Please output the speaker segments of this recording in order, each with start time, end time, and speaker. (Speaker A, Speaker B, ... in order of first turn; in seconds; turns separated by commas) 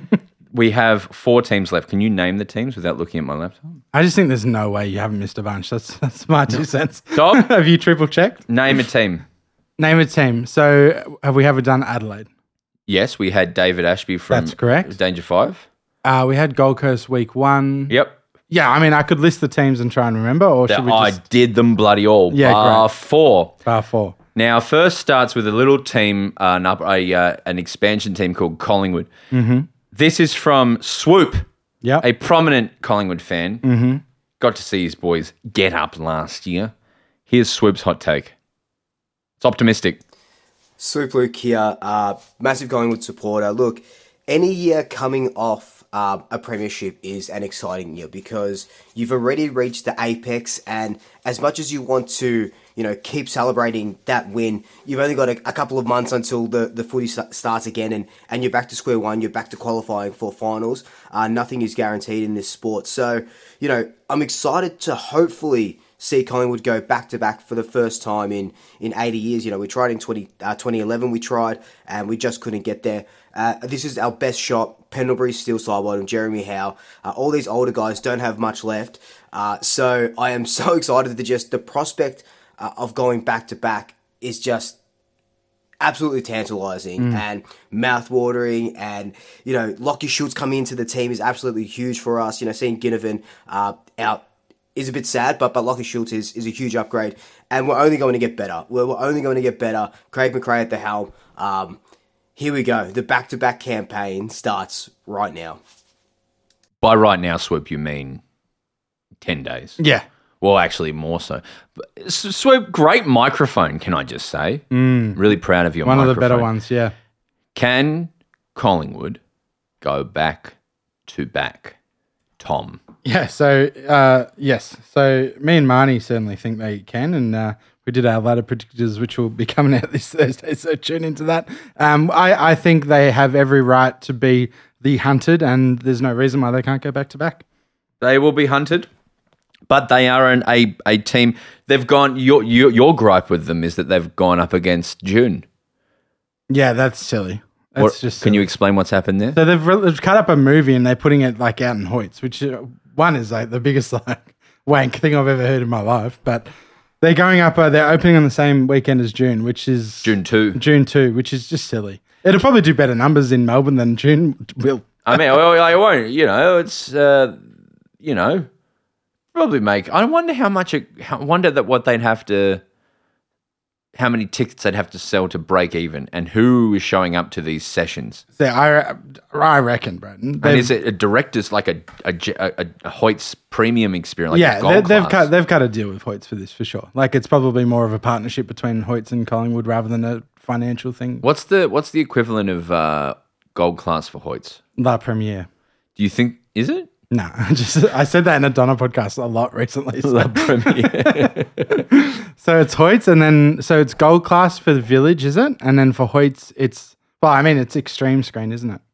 Speaker A: 0.5-3.6, Speaker B: 3.9-8.5, Speaker A: 7.1-7.5, Speaker A: 8.5-9.2, Speaker B: 9.8-12.3, Speaker A: 12.9-15.7, Speaker B: 14.3-14.9, Speaker B: 16.0-17.9, Speaker A: 17.9-18.1, Speaker B: 18.5-21.2, Speaker A: 20.7-23.5, Speaker B: 22.3-22.9, Speaker B: 23.6-24.2, Speaker A: 24.3-29.1, Speaker B: 29.3-29.7, Speaker A: 29.9-31.4, Speaker A: 32.0-33.6, Speaker B: 33.6-34.0, Speaker A: 34.4-36.7, Speaker A: 37.3-38.3, Speaker A: 39.4-40.0, Speaker C: 40.8-84.8, Speaker C: 85.8-94.2, Speaker B: 87.0-87.2, Speaker C: 94.7-101.8, Speaker C: 102.3-105.6, Speaker A: 106.8-108.2, Speaker A: 109.2-109.8, Speaker B: 109.8-110.0, Speaker A: 110.4-116.5, Speaker B: 114.7-116.9, Speaker A: 117.5-119.2, Speaker A: 119.8-120.5, Speaker A: 121.1-121.8, Speaker A: 122.4-122.8, Speaker B: 123.0-137.4, Speaker A: 138.0-138.9, Speaker A: 139.7-145.4, Speaker B: 146.5-148.5, Speaker A: 147.8-149.4, Speaker B: 149.3-156.5, Speaker B: 157.0-165.2, Speaker A: 160.0-160.6, Speaker A: 165.1-167.4, Speaker A: 168.0-168.5, Speaker A: 169.3-172.6, Speaker A: 173.9-178.2, Speaker B: 178.4-180.7, Speaker A: 180.4-185.3, Speaker B: 184.3-191.2, Speaker A: 191.2-194.6, Speaker B: 194.8-195.5, Speaker A: 196.0-196.9, Speaker B: 197.1-208.8, Speaker A: 200.0-201.8